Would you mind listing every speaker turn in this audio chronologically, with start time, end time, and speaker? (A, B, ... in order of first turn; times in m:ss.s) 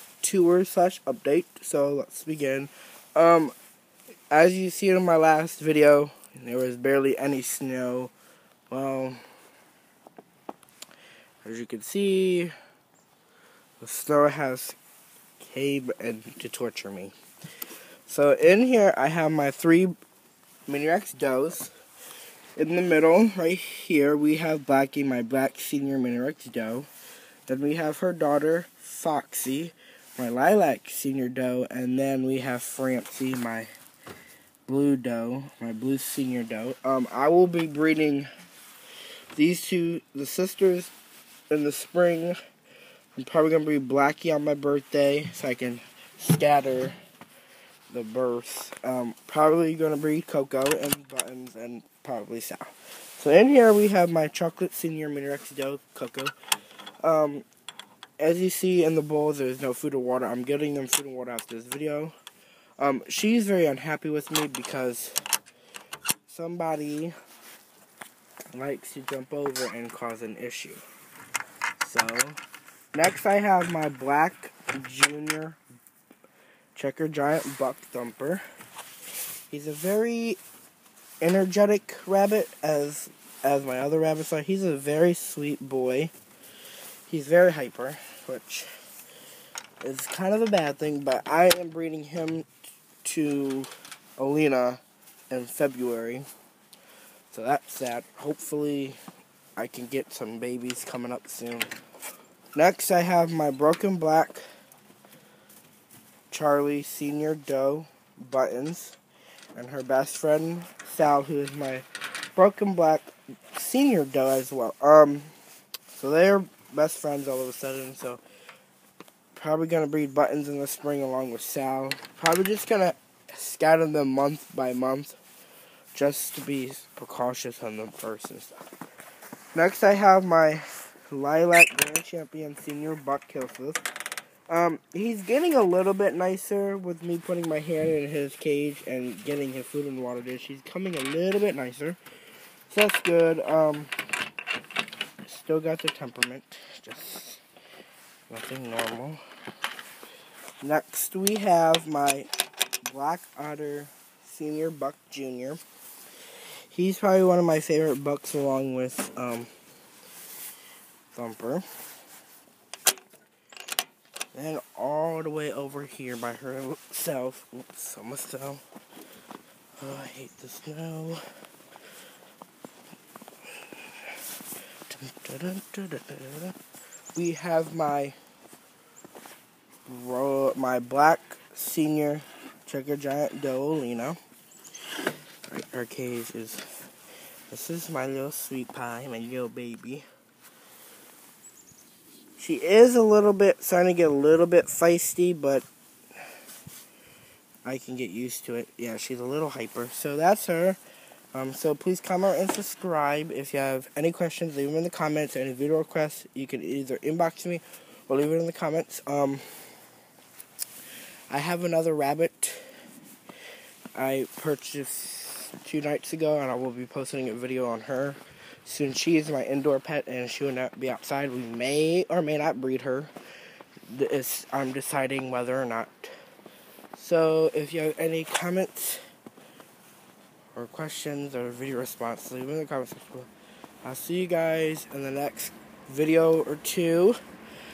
0:00.2-0:03.5 A
0:04.3-0:08.1 A
0:08.7-0:09.2 A
0:11.4-0:12.5 A
0:13.8-0:14.8 A
0:15.4-0:17.1 A
0:18.1-0:20.0 A
0:20.7-0:21.7 A
0:22.6-0:26.9 A
0:27.5-0:33.7 A
0:34.7-0:38.3 A
0:39.3-0:40.9 A
0:41.5-0:42.4 A
0:43.2-0:47.0 A
0:47.9-0:56.3 A
0:57.0-0:57.5 A
0:58.2-1:02.1 A
1:02.8-1:05.2 A
1:06.3-1:07.1 A
1:08.5-1:10.8 A
1:11.8-1:12.4 A
1:12.9-1:15.6 A
1:16.8-1:18.4 A
1:19.5-1:20.4 A
1:21.2-1:26.1 A
1:27.1-1:28.7 A
1:29.8-1:32.5 A
1:33.0-1:36.3 A
1:37.3-1:39.0 A
1:39.6-1:41.7 A
1:42.6-1:44.4 A
1:46.3-1:49.0 A
1:49.6-1:55.3 A
1:55.9-1:58.2 A
1:59.4-2:05.2 A
2:05.9-2:08.6 A
2:09.5-2:13.8 A
2:14.5-2:22.0 A
2:22.7-2:23.9 A
2:25.2-2:27.4 A
2:28.3-2:29.2 A
2:30.6-2:32.3 A
2:32.8-2:35.6 A
2:36.7-2:39.5 A
2:41.1-2:41.6 A
2:44.3-2:48.6 A
2:49.8-2:51.2 A
2:53.6-2:54.2 A
2:54.9-2:56.6 A
2:57.2-2:58.2 A
2:59.9-3:04.2 A
3:05.5-3:06.7 A
3:07.5-3:10.1 A
3:12.4-3:15.7 A
3:17.6-3:20.8 A
3:21.3-3:29.4 A
3:31.3-3:32.6 A
3:34.0-3:43.1 A
3:43.9-3:46.1 A
3:46.9-3:49.0 A
3:50.6-3:53.3 A
3:53.8-3:57.2 A